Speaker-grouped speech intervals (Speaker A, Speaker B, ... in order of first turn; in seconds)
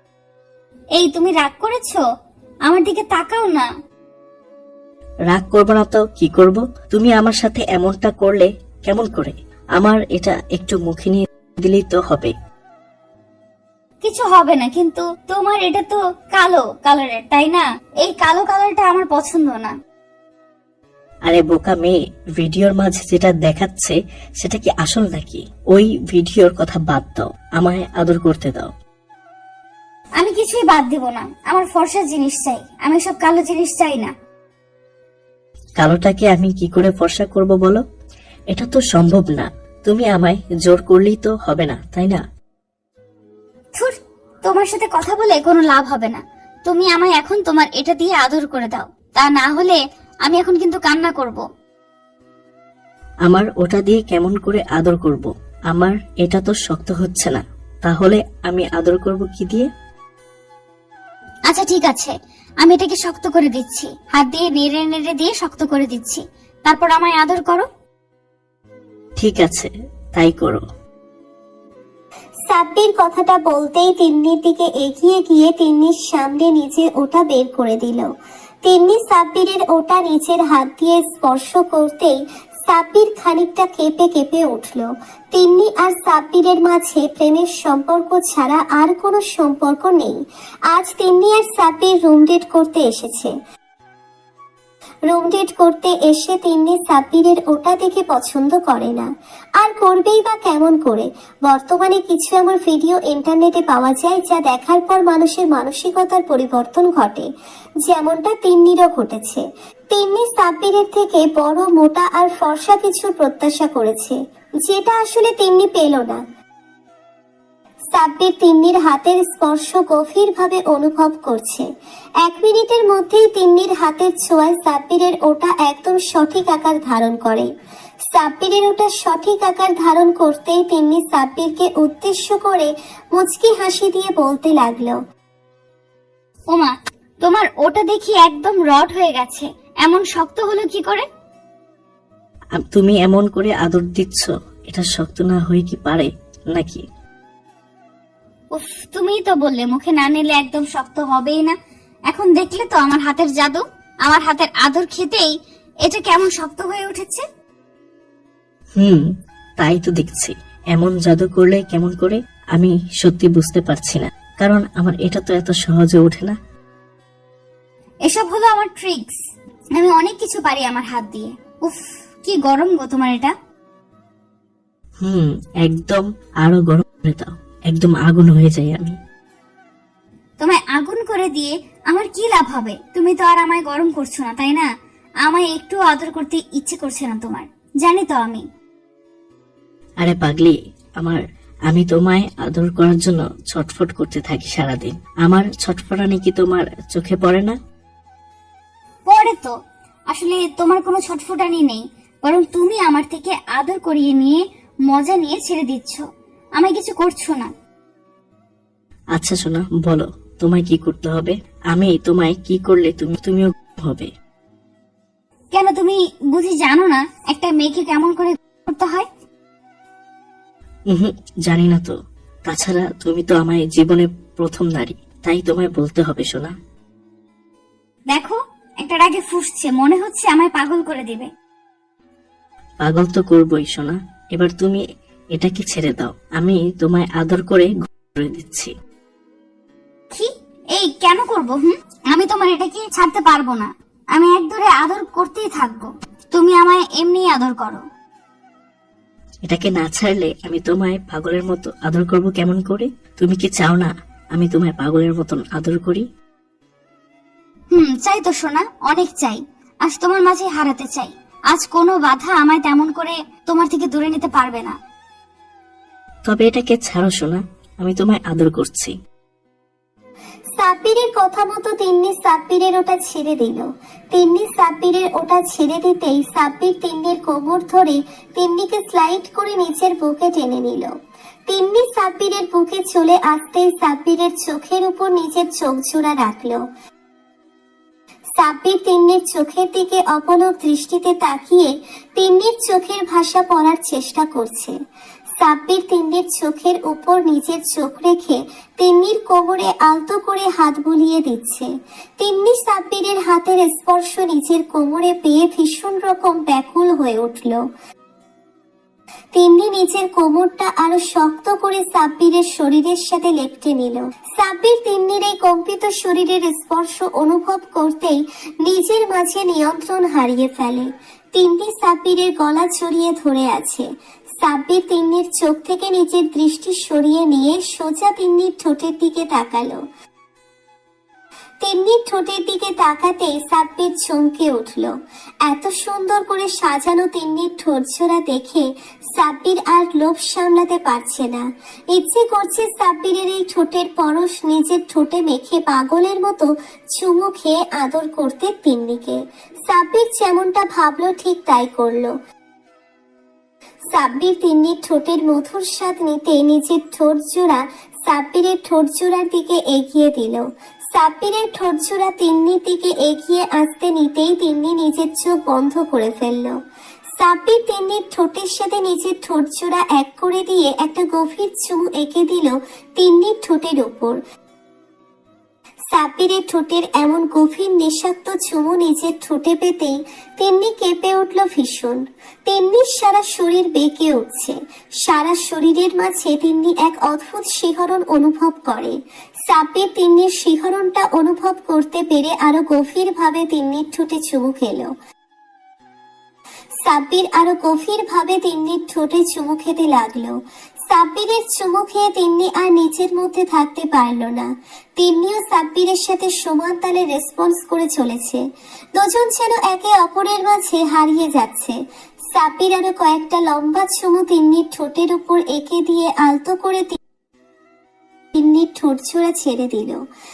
Speaker A: 1.0-2.0, 2.7-3.6, 14.0-19.7, 30.2-34.1, 44.4-51.4, 61.5-67.7, 136.5-141.0, 148.5-151.5, 152.1-155.3, 155.8-157.2, 168.1-169.1, 169.8-173.3, 180.4-184.6, 185.2-188.4, 199.1-199.5, 200.1-204.4, 204.9-206.0, 206.6-207.5, 215.5-219.1, 228.1-231.3, 240.1-247.8, 257.7-264.7
Speaker B: 5.3-12.3, 21.2-28.7, 35.8-37.8, 38.5-42.2, 53.2-59.7, 69.2-70.6, 142.6-146.8, 158.8-159.0, 159.6-166.3, 175.0-178.9, 190.0-197.6, 209.1-214.1, 220.9-221.9, 222.4-226.5, 232.8-234.8, 235.3-238.7, 249.4-256.0, 266.3-268.9
Speaker C: 72.5-78.1, 78.6-82.1, 82.7-90.1, 90.7-93.3, 95.1-99.1, 99.6-107.2, 107.8-116.2, 117.9-121.6, 122.2-127.5, 128.1-134.9, 270.6-280.9, 281.5-286.6, 288.4-294.7, 295.4-301.7, 302.2-307.6, 309.4-323.8, 324.4-329.8, 331.6-334.9, 335.4-338.6, 339.1-341.4, 341.9-352.1, 353.9-360.4, 360.9-366.5, 367.2-374.2, 375.9-388.9, 389.5-394.9, 396.8-400.3, 400.9-404.4, 405.0-408.4, 409.0-411.7, 412.3-416.9, 418.3-419.9